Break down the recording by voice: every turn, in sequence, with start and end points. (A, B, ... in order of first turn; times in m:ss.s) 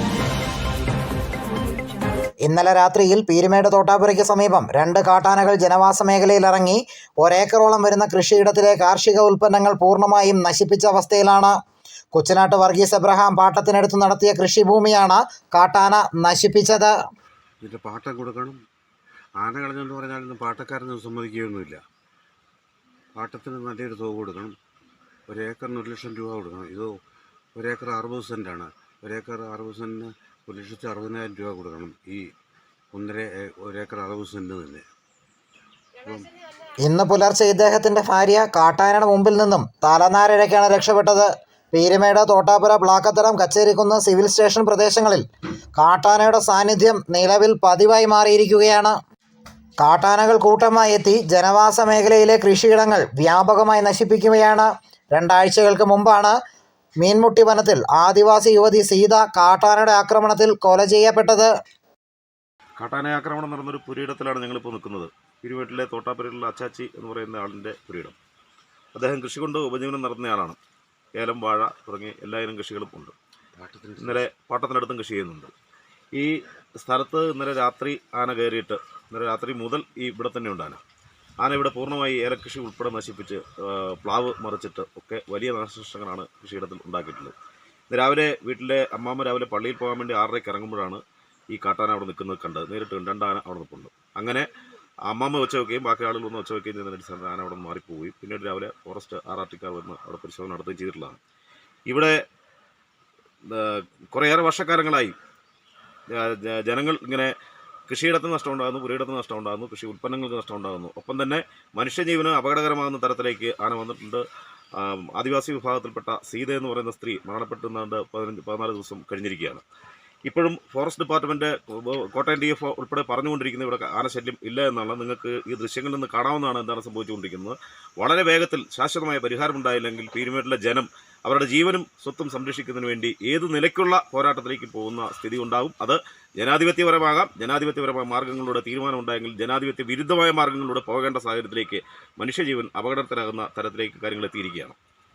0:02.4-0:11.5 A
0:12.1-0:16.9 A
0:17.6-0:18.6 B
0:19.4-0:21.8 B
0:23.2-0:24.5 B
0:25.3-0:26.9 B
0:27.6-0:32.2 B
0:32.9-0:34.8 B
0:36.0-0:36.3 B
0:36.8-0:45.2 A
0:45.8-0:49.0 A
0:49.8-0:56.4 A
0:57.0-1:01.5 A
1:02.8-1:08.2 C
1:08.9-1:10.6 C
1:11.2-1:13.1 C
1:13.6-1:14.2 B
1:14.0-1:15.5 C
1:16.1-1:20.8 C
1:21.4-1:27.3 C
1:27.9-1:31.0 C
1:31.5-1:34.5 C
1:35.1-1:41.2 C
1:41.9-1:42.1 C
1:43.5-1:45.1 C
1:46.1-1:47.3 C
1:47.9-1:54.2 C
1:54.8-1:59.6 C
2:00.3-2:24.8 C